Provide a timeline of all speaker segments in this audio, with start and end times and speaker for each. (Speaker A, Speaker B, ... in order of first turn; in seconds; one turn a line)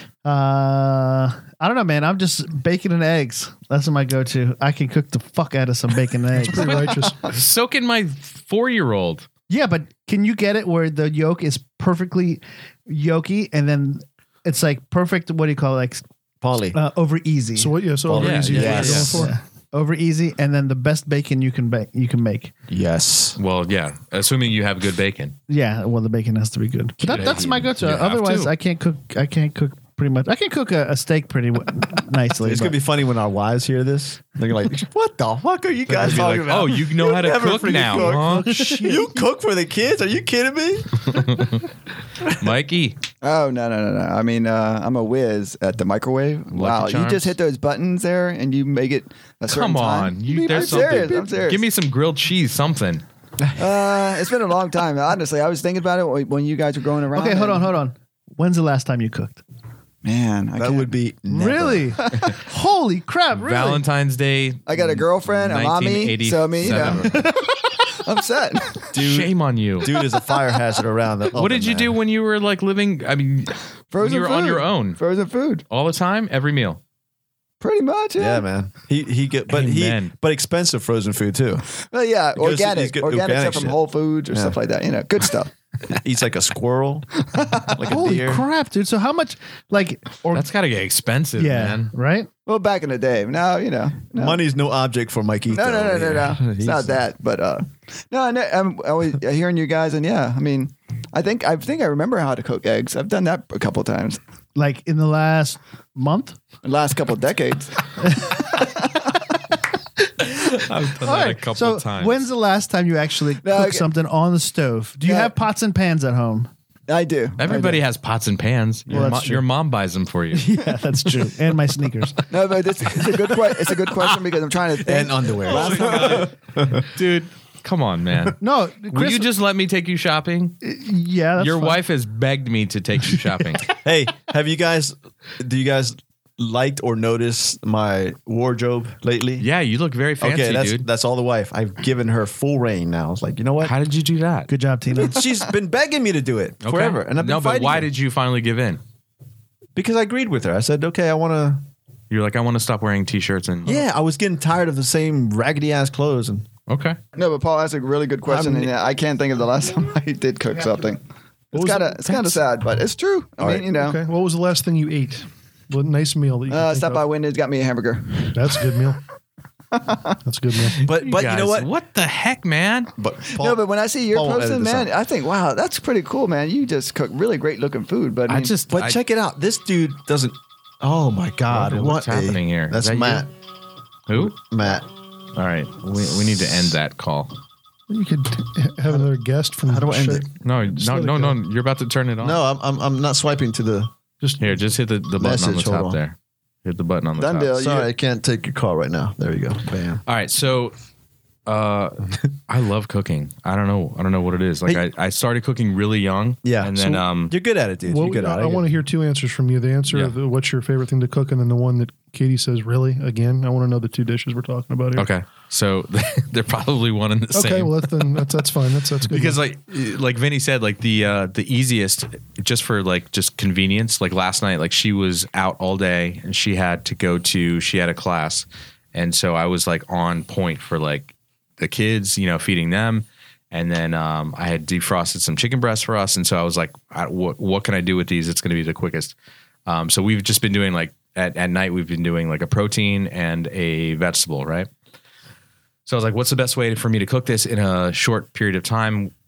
Speaker A: 0.2-6.8
Speaker B: 6.4-7.3
Speaker C: 6.6-9.3
Speaker A: 9.5-16.0
Speaker D: 16.4-16.8
Speaker A: 16.7-17.8
Speaker B: 17.6-19.4
Speaker D: 18.1-19.2
Speaker C: 18.2-19.2
Speaker A: 18.6-22.5
Speaker D: 22.7-23.4
Speaker C: 23.4-25.4
Speaker A: 25.5-32.8
Speaker D: 27.0-27.7
Speaker C: 27.0-28.5
Speaker D: 32.4-41.3
Speaker C: 35.9-38.8
Speaker A: 38.3-39.0
Speaker C: 41.1-41.7
Speaker C: 42.2-43.0
Speaker E: 43.2-51.6
Speaker C: 46.5-47.4
Speaker C: 49.5-53.0
Speaker D: 53.4-53.8
Speaker E: 53.6-57.7
Speaker A: 57.1-59.4
Speaker E: 60.0-60.9
Speaker D: 60.6-62.2
Speaker A: 61.3-63.8
Speaker E: 62.1-62.3
Speaker C: 63.4-67.1
Speaker E: 64.7-67.1
Speaker D: 66.6-67.3
Speaker A: 67.1-67.4
Speaker E: 67.9-68.9
Speaker C: 68.9-70.0
Speaker D: 68.9-72.0
Speaker C: 71.3-75.0
Speaker E: 73.9-75.6
Speaker C: 75.7-76.8
Speaker E: 77.6-78.4
Speaker D: 78.2-81.7
Speaker C: 79.5-80.1
Speaker E: 81.8-85.5
Speaker D: 82.4-83.8
Speaker D: 84.3-84.6
Speaker D: 85.9-88.5
Speaker A: 87.9-90.5
Speaker C: 90.3-91.9
Speaker A: 91.4-92.3
Speaker E: 92.5-94.4
Speaker D: 94.1-97.0
Speaker E: 95.5-104.2
Speaker A: 104.5-106.4
Speaker E: 106.6-107.9
Speaker C: 110.2-112.2
Speaker A: 111.0-116.5
Speaker E: 113.4-113.9
Speaker E: 115.0-115.3
Speaker E: 116.9-117.8
Speaker C: 117.4-120.5
Speaker D: 118.9-119.4
Speaker A: 118.9-119.4
Speaker A: 120.3-122.2
Speaker E: 122.3-126.3
Speaker D: 124.8-126.9
Speaker C: 125.5-128.4
Speaker A: 128.4-129.3
Speaker C: 128.9-130.6
Speaker A: 130.6-131.8
Speaker C: 131.4-133.7
Speaker D: 133.7-139.5
Speaker C: 139.4-140.9
Speaker D: 140.2-143.7
Speaker C: 143.6-144.5
Speaker A: 144.5-145.2
Speaker D: 145.0-147.9
Speaker C: 146.6-148.8
Speaker D: 149.8-151.7
Speaker C: 152.1-153.8
Speaker D: 153.6-156.5
Speaker C: 156.7-157.0
Speaker E: 157.2-161.0
Speaker D: 158.2-158.8
Speaker E: 161.5-164.0
Speaker B: 161.5-162.3
Speaker D: 163.4-163.7
Speaker B: 163.7-167.1
Speaker E: 166.5-168.6
Speaker B: 168.3-169.0
Speaker B: 170.2-170.8
Speaker C: 170.7-172.9
Speaker D: 170.8-171.7
Speaker D: 173.0-174.9
Speaker E: 173.4-178.5
Speaker C: 178.3-179.0
Speaker D: 178.7-183.3
Speaker C: 181.5-183.3
Speaker C: 184.1-184.4
Speaker D: 184.1-184.9
Speaker C: 185.3-187.3
Speaker B: 187.9-191.4
Speaker D: 189.7-190.3
Speaker C: 190.4-192.4
Speaker D: 192.2-193.9
Speaker B: 194.2-194.6
Speaker C: 194.4-197.5
Speaker D: 195.2-196.0
Speaker E: 197.2-197.9
Speaker D: 197.6-200.0
Speaker C: 200.1-200.8
Speaker C: 201.5-207.3
Speaker D: 206.4-208.7
Speaker B: 207.8-215.1
Speaker C: 209.9-210.2
Speaker C: 215.0-218.2
Speaker B: 217.3-219.4
Speaker C: 219.0-239.2
Speaker C: 239.7-244.7
Speaker C: 245.9-249.1